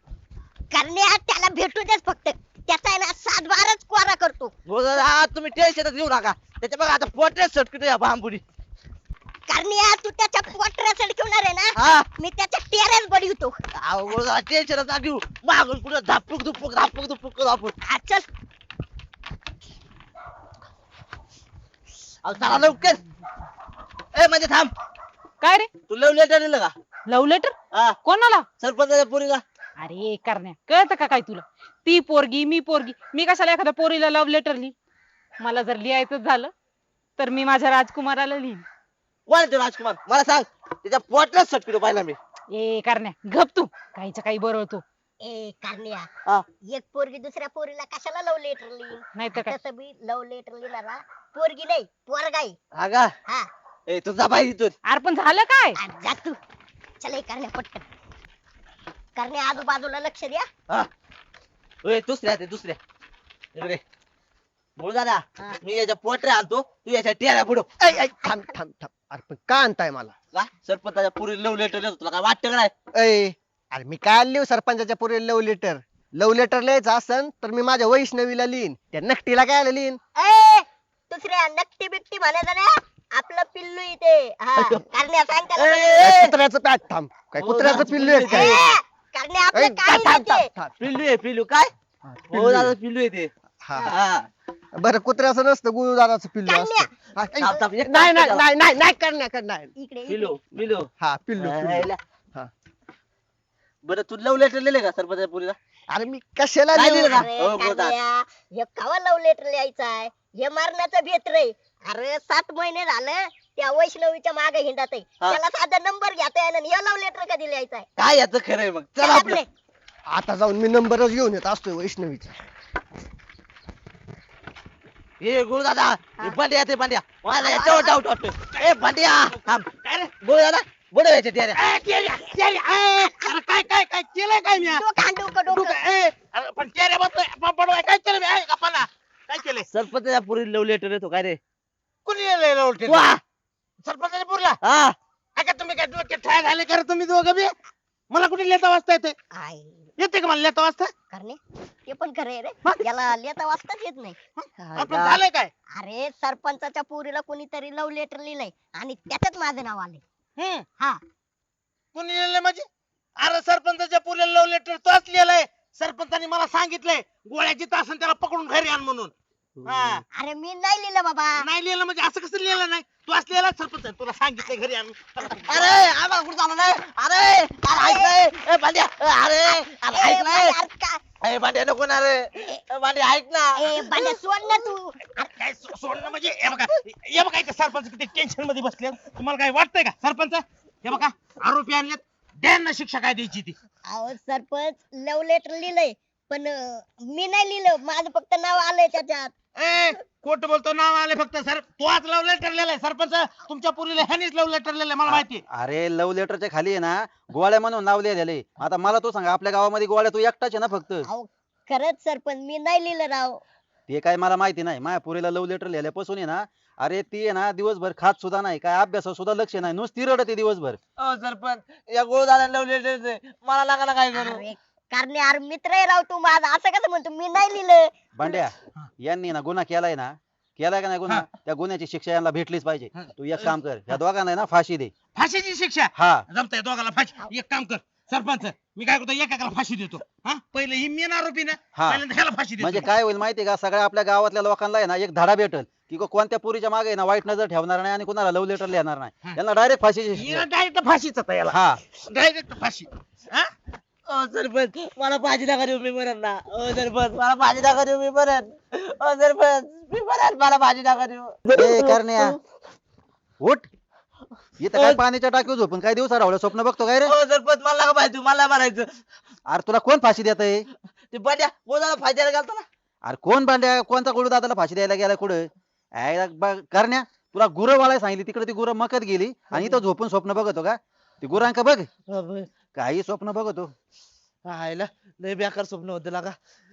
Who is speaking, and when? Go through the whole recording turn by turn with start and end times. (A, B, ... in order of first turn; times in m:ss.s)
0:00.7-0:04.5 A
0:04.7-0:08.4 B
0:09.5-0:13.5 A
0:11.8-0:12.1 B
0:13.8-0:17.7 B
0:17.8-0:18.3 A
0:22.2-0:23.0 B
0:24.1-0:24.7 B
0:25.4-0:25.7 C
0:25.9-0:26.7 B
0:27.0-0:28.4 C
0:27.7-0:28.0 B
0:28.6-0:29.4 B
0:29.8-0:34.7 C
0:35.4-0:36.5 C
0:37.2-0:38.6 C
0:39.3-0:42.2 B
0:42.5-0:44.8 C
0:45.2-0:46.1 A
0:46.6-0:52.5 A
0:49.2-0:49.5 C
0:52.7-0:53.1 B
0:53.9-0:54.7 B
0:54.8-0:55.8 C
0:55.8-0:56.4 A
0:57.0-0:57.8 A
0:59.2-1:00.5 A
1:01.8-1:02.8 B
1:03.5-1:03.8 B
1:04.8-1:07.7 B
1:07.8-1:10.1 D
1:10.3-1:12.7 B
1:12.9-1:20.0 D
1:20.2-1:26.1 A
1:24.6-1:24.8 B
1:25.6-1:26.3 B
1:26.0-1:28.6 D
1:27.4-1:28.6 B
1:28.2-1:30.5 A
1:29.5-1:30.8 D
1:30.8-1:31.7 B
1:32.1-1:32.7 D
1:32.3-1:34.3 B
1:33.6-1:34.0 D
1:34.8-1:39.7 D
1:36.4-1:36.9 A
1:37.4-1:38.4 B
1:39.8-1:40.3 A
1:40.1-1:42.0 B
1:41.0-1:42.5 D
1:43.8-1:45.6 B
1:45.9-1:47.3 D
1:46.7-1:48.0 B
1:47.1-1:57.9 A
1:58.0-1:59.4 B
1:59.0-1:59.5 A
2:00.1-2:02.4 D
2:05.2-2:11.6 B
2:07.3-2:08.0 A
2:11.7-2:14.8 E
2:14.6-2:15.8 A
2:15.5-2:19.6 E
2:19.7-2:21.4 B
2:22.0-2:23.0 E
2:22.8-2:23.2 B
2:23.8-2:24.6 E
2:24.6-2:25.0 B
2:25.4-2:27.5 E
2:28.1-2:29.1 E
2:29.3-2:29.9 A
2:30.0-2:30.9 E
2:31.1-2:34.2 A
2:34.4-2:35.5 E
2:34.6-2:35.2 D
2:35.7-2:40.0 A
2:40.4-2:40.7 E
2:41.9-2:42.7 E
2:43.2-2:49.1 E
2:49.6-2:50.0 B
2:49.6-2:50.0 E
2:50.1-2:51.4 A
2:51.4-2:55.5 E
2:55.4-3:00.6 B
2:57.6-2:58.1 A
2:59.9-3:01.0 A
3:01.2-3:04.2 B
3:03.6-3:05.0 A
3:05.2-3:13.5 E
3:13.9-3:19.3 A
3:19.6-3:25.4 E
3:25.0-3:31.0 F
3:31.1-3:33.4 A
3:33.9-3:40.8 F
3:41.0-3:44.4 B
3:44.1-3:47.9 A
3:48.2-3:54.9 F
3:55.1-4:02.8 E
3:55.9-3:56.2 F
4:01.7-4:10.5 F
4:10.2-4:13.5 E
4:11.5-4:11.8 F
4:14.1-4:22.3 B
4:21.5-4:22.4 F
4:23.4-4:23.7 F
4:24.6-4:27.1 F
4:24.7-4:25.0 B
4:27.0-4:28.9 B
4:29.5-4:30.7 F
4:31.1-4:32.6 B
4:33.0-4:35.4 F
4:36.0-4:41.9 F
4:39.5-4:39.8 B
4:42.1-4:42.5 B
4:42.8-4:43.7 F
4:44.4-4:46.3 B